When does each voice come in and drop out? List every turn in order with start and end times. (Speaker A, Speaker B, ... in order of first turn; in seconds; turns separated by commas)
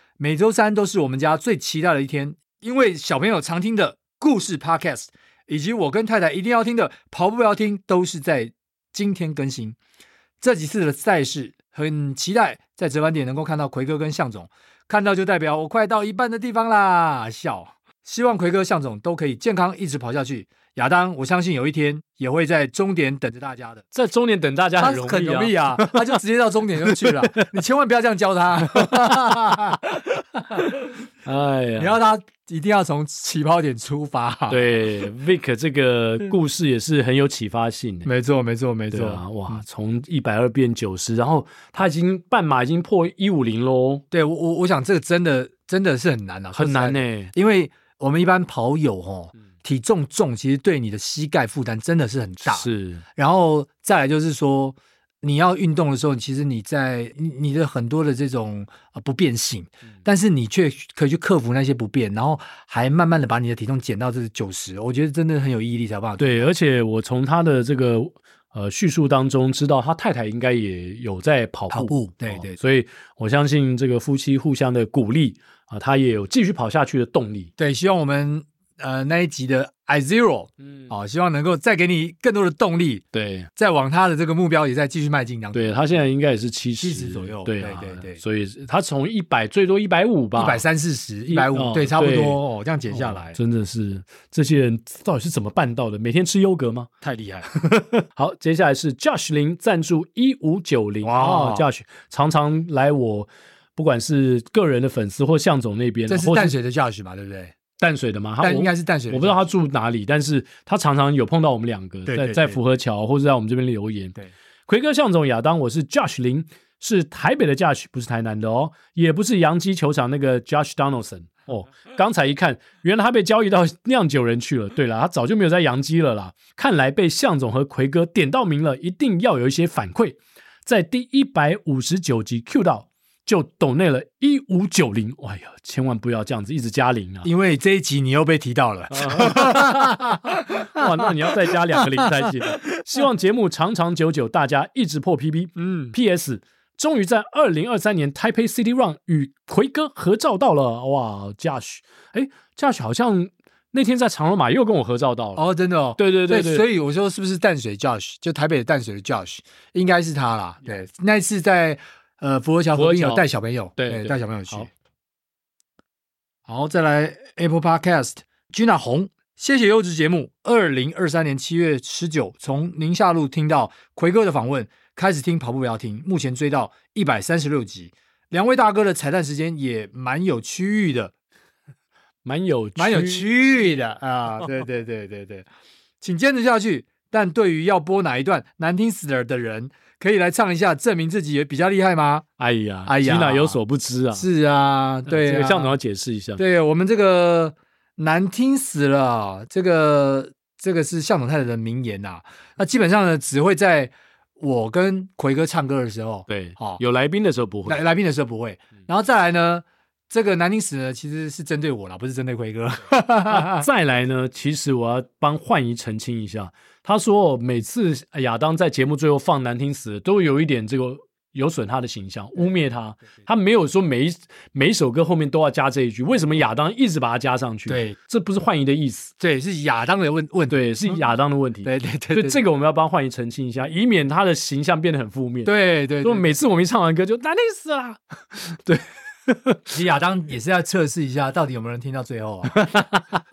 Speaker A: 0.2-9.8, Speaker A: 10.4-23.8, Speaker B: 23.9-26.1, Speaker A: 24.8-30.9, Speaker B: 26.8-27.1, Speaker B: 28.8-29.0, Speaker B: 31.2-32.0, Speaker A: 31.8-34.7, Speaker B: 34.5-38.1, Speaker A: 38.0-39.6, Speaker B: 38.9-44.0, Speaker A: 44.1-66.5, Speaker B: 46.5-47.3, Speaker B: 52.5-53.0, Speaker B: 66.2-77.5, Speaker A: 71.7-72.5, Speaker A: 77.6-83.0, Speaker B: 80.6-80.9, Speaker B: 83.1-83.5, Speaker A: 83.5-85.8, Speaker B: 85.5-90.6, Speaker A: 86.8-88.2, Speaker A: 90.3-93.4, Speaker B: 91.3-96.9, Speaker A: 97.0-97.5, Speaker B: 97.6-106.5, Speaker A: 101.0-101.7, Speaker A: 106.1-107.5, Speaker B: 107.8-137.3, Speaker A: 108.4-109.4, Speaker A: 112.1-112.6, Speaker A: 137.2-142.6, Speaker B: 138.9-155.4, Speaker A: 145.6-145.9, Speaker A: 155.3-164.7, Speaker B: 156.0-156.7, Speaker B: 162.7-163.2, Speaker B: 163.8-164.7, Speaker A: 166.5-181.1, Speaker B: 182.2-183.3, Speaker A: 182.8-185.5, Speaker A: 186.0-192.2, Speaker B: 192.4-194.3, Speaker A: 192.8-193.6, Speaker A: 194.1-195.8, Speaker B: 195.1-196.4, Speaker A: 196.4-206.8, Speaker B: 206.3-207.8, Speaker A: 207.7-213.7, Speaker B: 213.3-229.1, Speaker A: 227.7-228.0, Speaker A: 229.2-231.0, Speaker B: 230.5-239.7, Speaker A: 231.6-232.4, Speaker A: 235.4-236.4, Speaker A: 239.7-242.8, Speaker B: 242.5-243.2